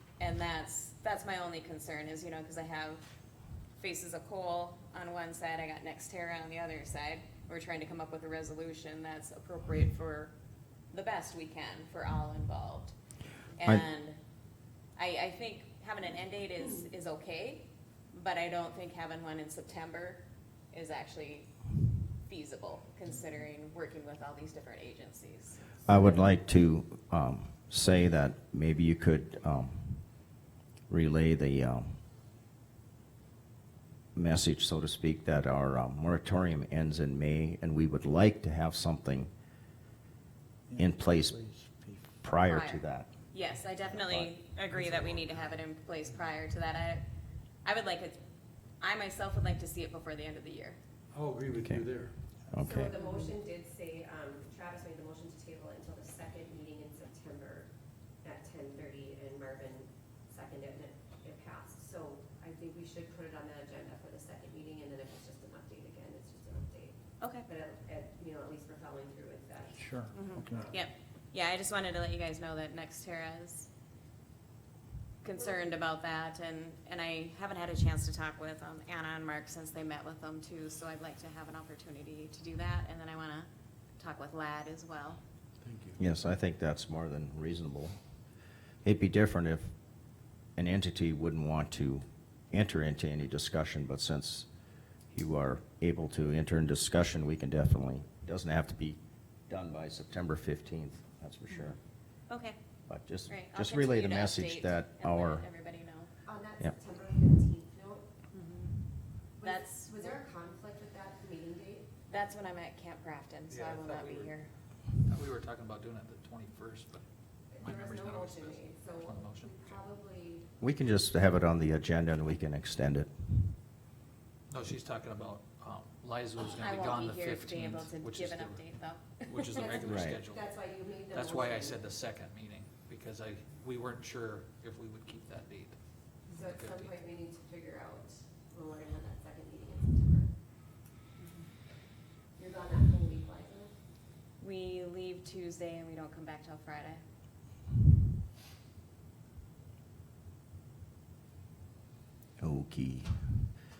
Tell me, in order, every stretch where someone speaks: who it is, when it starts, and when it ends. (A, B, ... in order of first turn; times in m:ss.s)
0:00.2-0:03.1 A
0:03.8-0:10.3 A
0:10.9-0:13.0 A
0:13.6-0:14.2 A
0:15.0-0:21.6 A
0:22.1-0:26.2 A
0:25.8-0:30.0 B
0:30.9-0:31.9 B
0:34.1-0:39.3 B
0:40.8-0:41.4 B
0:41.5-0:42.0 C
0:42.2-0:43.1 B
0:42.4-0:47.0 A
0:44.0-0:44.3 B
0:47.6-0:48.2 A
0:48.8-0:50.8 A
0:51.1-0:52.1 C
0:52.5-0:52.9 B
0:52.6-0:57.7 D
0:52.9-0:53.3 A
0:58.2-1:10.7 D
1:07.2-1:07.4 A
1:09.8-1:10.6 C
1:10.1-1:13.7 A
1:15.2-1:25.2 A
1:25.6-1:26.0 C
1:26.0-1:28.0 B
1:28.8-1:29.7 B
1:30.6-1:34.5 B
1:35.1-1:39.0 B
1:39.5-1:41.8 B
1:42.3-1:42.6 A
1:42.9-1:45.4 B
1:43.3-1:46.1 A
1:46.2-1:48.1 D
1:48.3-1:48.8 A
1:49.4-1:52.0 D
1:49.4-1:50.2 A
1:52.1-1:54.5 A
1:53.5-1:54.3 E
1:55.0-1:57.0 E
1:57.5-2:00.5 D
1:57.6-1:59.7 E
2:00.6-2:03.5 B
2:04.5-2:08.6 E
2:06.5-2:09.7 A
2:09.2-2:16.9 E
2:09.5-2:11.9 D
2:09.8-2:10.2 B
2:16.3-2:20.3 D
2:22.4-2:23.8 D
2:24.4-2:27.0 A
2:32.4-2:33.5 B